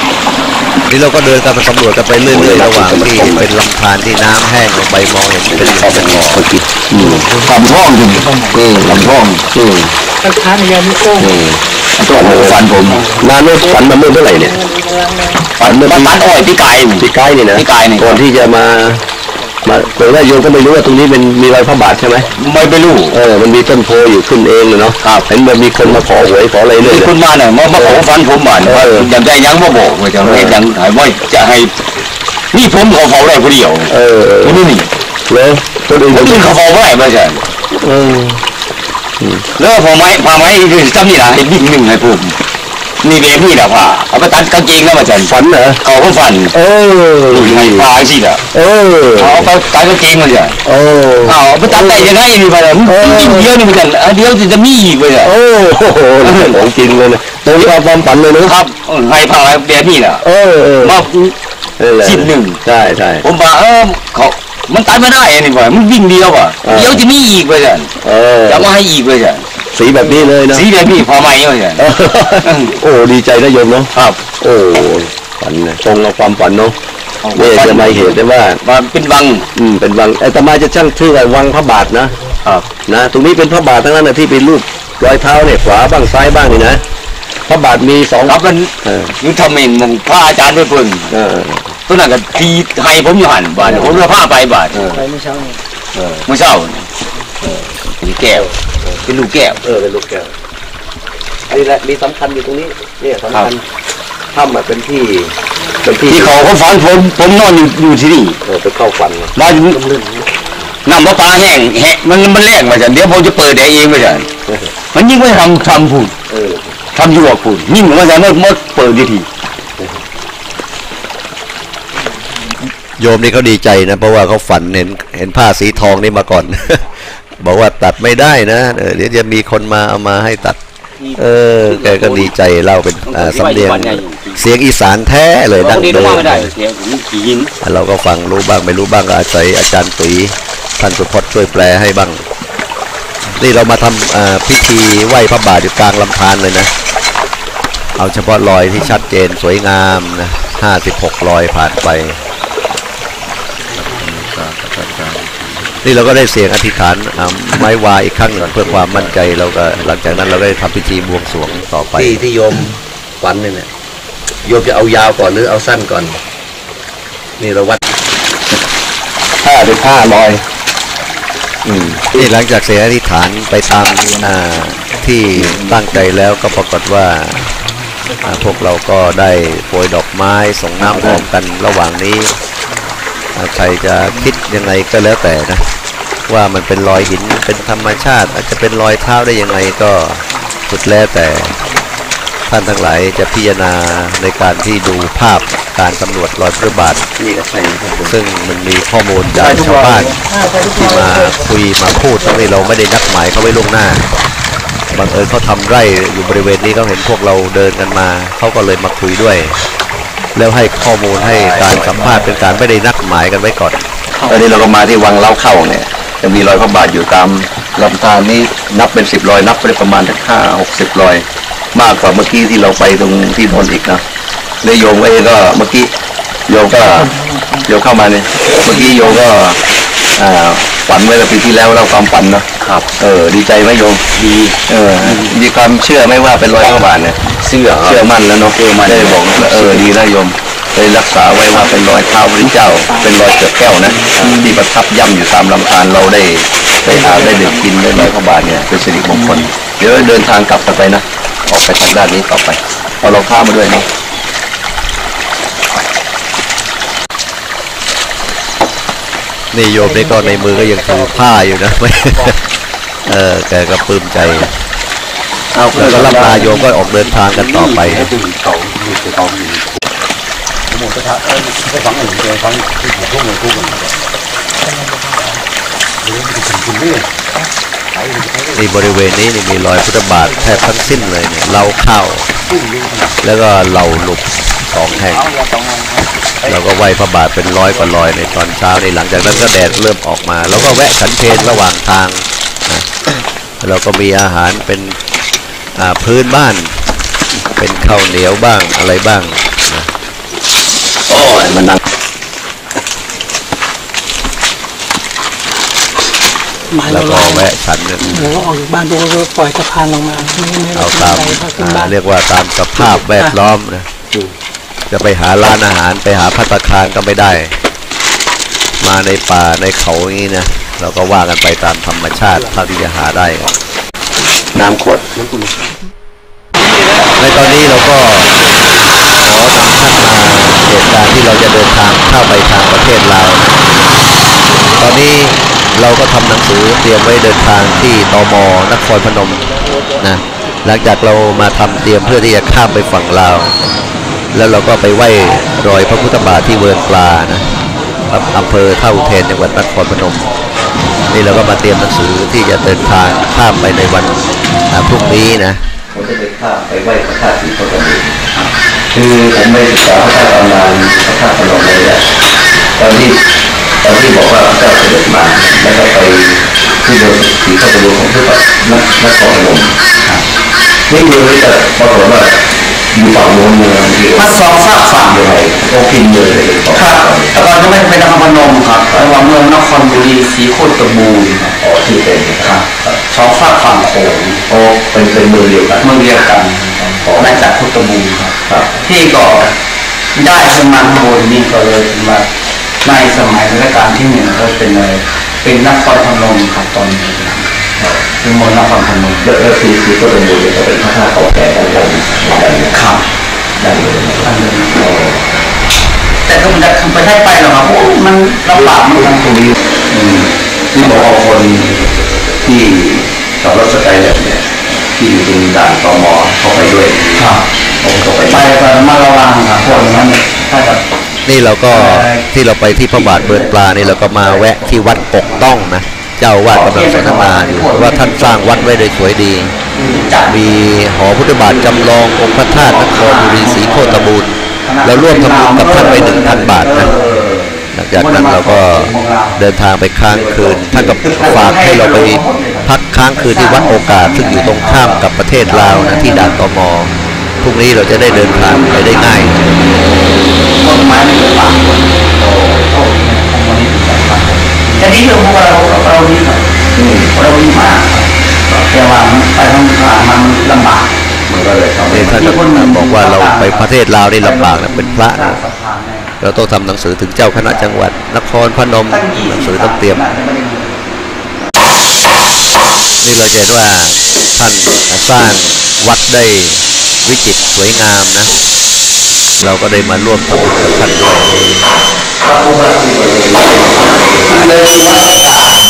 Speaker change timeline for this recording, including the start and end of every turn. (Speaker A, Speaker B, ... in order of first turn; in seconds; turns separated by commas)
Speaker A: 0.9-6.5, Speaker B: 2.2-3.5, Speaker C: 5.5-6.9, Speaker B: 6.9-7.3, Speaker D: 6.9-8.8, Speaker C: 7.4-9.5, Speaker B: 8.8-9.9, Speaker D: 10.2-11.4, Speaker B: 11.2-14.6, Speaker C: 12.0-13.1, Speaker D: 12.8-13.8, Speaker D: 14.3-15.5, Speaker C: 15.6-18.2, Speaker B: 15.6-16.2, Speaker B: 17.0-19.1, Speaker B: 19.6-22.3, Speaker C: 22.4-23.2, Speaker B: 23.1-27.1, Speaker C: 25.0-25.3, Speaker C: 26.8-31.7, Speaker B: 27.8-28.0, Speaker B: 28.6-29.1, Speaker B: 30.2-30.6, Speaker C: 32.5-34.9, Speaker B: 33.9-34.6, Speaker B: 35.3-36.5, Speaker C: 36.1-37.4, Speaker B: 37.7-38.4, Speaker C: 39.6-42.4, Speaker C: 43.0-46.5, Speaker B: 45.2-45.8, Speaker B: 46.5-47.9, Speaker C: 47.3-48.4, Speaker B: 48.5-49.5, Speaker C: 49.2-50.6, Speaker B: 50.6-52.2, Speaker C: 51.2-55.3, Speaker B: 52.9-53.5, Speaker B: 55.2-58.5, Speaker C: 56.2-56.6, Speaker C: 58.4-60.2, Speaker B: 60.2-61.1, Speaker C: 60.8-61.3, Speaker B: 61.8-63.3, Speaker C: 62.0-62.6, Speaker C: 63.2-67.9, Speaker B: 66.6-67.0, Speaker B: 68.0-68.7, Speaker C: 68.5-69.5, Speaker B: 69.7-70.7, Speaker C: 70.3-71.9, Speaker B: 71.8-76.8, Speaker C: 72.4-72.8, Speaker C: 74.0-74.2, Speaker C: 77.2-79.5, Speaker B: 77.3-78.6, Speaker B: 79.5-82.2, Speaker B: 82.9-86.8, Speaker B: 87.5-89.1, Speaker C: 88.2-91.1, Speaker B: 91.1-91.7, Speaker C: 91.9-94.8, Speaker B: 93.6-94.1, Speaker B: 94.7-95.1, Speaker D: 95.0-95.6, Speaker B: 96.0-96.3, Speaker C: 96.3-96.9, Speaker B: 97.4-97.8, Speaker C: 98.0-98.5, Speaker B: 98.3-99.0, Speaker C: 99.0-99.6, Speaker B: 99.6-100.3, Speaker B: 101.5-103.7, Speaker B: 104.3-106.4, Speaker C: 106.1-108.4, Speaker B: 108.5-110.2, Speaker C: 109.3-109.8, Speaker C: 110.8-114.3, Speaker C: 114.9-116.2, Speaker B: 116.3-116.8, Speaker C: 116.9-119.3, Speaker A: 123.0-130.6, Speaker C: 131.0-132.3, Speaker A: 131.2-136.5, Speaker C: 133.1-134.4, Speaker C: 135.6-137.5, Speaker A: 137.6-142.2, Speaker A: 143.4-146.7, Speaker A: 148.0-152.2, Speaker B: 153.9-155.2, Speaker C: 154.2-155.3, Speaker A: 155.8-162.3, Speaker B: 158.3-159.2, Speaker B: 161.9-163.7, Speaker B: 164.4-166.2, Speaker B: 167.4-167.8, Speaker B: 169.4-170.4, Speaker B: 171.7-172.3, Speaker A: 172.1-177.5, Speaker B: 175.3-176.0, Speaker D: 177.9-178.4, Speaker A: 178.2-182.4, Speaker B: 180.8-181.2, Speaker A: 183.3-185.7, Speaker A: 186.3-191.6, Speaker D: 191.6-192.0, Speaker A: 192.5-197.1, Speaker B: 197.2-198.1, Speaker C: 197.2-198.0, Speaker A: 198.1-204.1, Speaker D: 199.4-201.5, Speaker A: 204.9-209.6, Speaker A: 210.3-213.8, Speaker B: 211.2-212.6, Speaker C: 211.2-212.4, Speaker B: 214.2-224.0, Speaker B: 224.6-225.9, Speaker B: 226.5-227.1, Speaker D: 226.8-227.7, Speaker B: 227.7-229.6, Speaker B: 230.2-234.0, Speaker C: 232.6-232.9, Speaker C: 234.1-235.3, Speaker B: 234.7-237.2, Speaker C: 237.4-239.9, Speaker B: 237.8-253.9, Speaker C: 244.0-244.3, Speaker A: 259.5-262.4, Speaker D: 259.8-261.5, Speaker A: 263.1-264.5, Speaker B: 265.6-266.5, Speaker C: 265.7-269.7, Speaker A: 265.7-268.1, Speaker D: 266.4-266.8, Speaker C: 270.7-273.9, Speaker D: 274.6-275.4, Speaker C: 276.0-277.1, Speaker C: 277.9-278.6, Speaker A: 278.6-282.3, Speaker D: 280.2-281.1, Speaker C: 282.5-283.1, Speaker A: 283.2-285.3, Speaker E: 285.4-286.0, Speaker A: 286.5-292.9, Speaker A: 293.6-295.0, Speaker A: 295.8-296.8, Speaker A: 297.6-299.9, Speaker B: 301.1-301.8, Speaker D: 306.7-307.5, Speaker A: 306.9-308.3, Speaker D: 308.0-312.0, Speaker A: 310.7-313.9, Speaker A: 314.9-317.6, Speaker A: 318.8-323.5, Speaker B: 324.5-325.5, Speaker A: 327.2-328.4, Speaker A: 329.2-333.5, Speaker A: 334.8-343.6, Speaker A: 344.3-347.5, Speaker A: 348.1-350.4, Speaker A: 351.1-355.6, Speaker B: 355.9-358.3, Speaker B: 358.9-362.1, Speaker B: 362.8-363.2, Speaker B: 363.8-369.8, Speaker E: 370.0-370.2, Speaker B: 370.9-374.4, Speaker E: 374.1-375.2, Speaker B: 375.1-377.5, Speaker E: 376.7-381.6, Speaker B: 378.9-379.2, Speaker B: 381.6-382.5, Speaker E: 382.3-384.4, Speaker B: 384.5-385.9, Speaker E: 385.8-389.6, Speaker B: 387.0-387.4, Speaker B: 388.5-388.7, Speaker E: 390.1-392.3, Speaker E: 392.8-397.6, Speaker E: 398.1-399.3, Speaker B: 399.2-402.8, Speaker E: 402.7-403.0, Speaker B: 403.6-405.3, Speaker E: 403.6-405.0, Speaker E: 406.2-409.6, Speaker B: 408.5-409.3, Speaker B: 409.9-417.2, Speaker E: 417.1-417.5, Speaker B: 417.8-418.5, Speaker E: 418.2-420.8, Speaker A: 421.3-429.6, Speaker E: 421.7-425.7, Speaker E: 426.5-428.8, Speaker E: 429.7-430.6, Speaker A: 430.2-434.3, Speaker E: 431.2-437.3, Speaker A: 434.8-436.9, Speaker B: 436.5-437.6, Speaker A: 437.7-449.7, Speaker E: 437.9-439.4, Speaker B: 440.1-441.5, Speaker E: 440.7-446.4, Speaker E: 448.0-449.8, Speaker E: 450.6-461.0, Speaker B: 452.2-452.6, Speaker B: 456.8-457.1, Speaker B: 461.3-462.4, Speaker A: 461.9-465.4, Speaker E: 462.0-466.1, Speaker A: 466.2-470.1, Speaker E: 467.3-467.8, Speaker E: 468.9-470.9, Speaker A: 473.0-478.3, Speaker A: 479.4-481.7, Speaker B: 480.3-481.4, Speaker B: 482.2-485.2, Speaker E: 484.3-485.4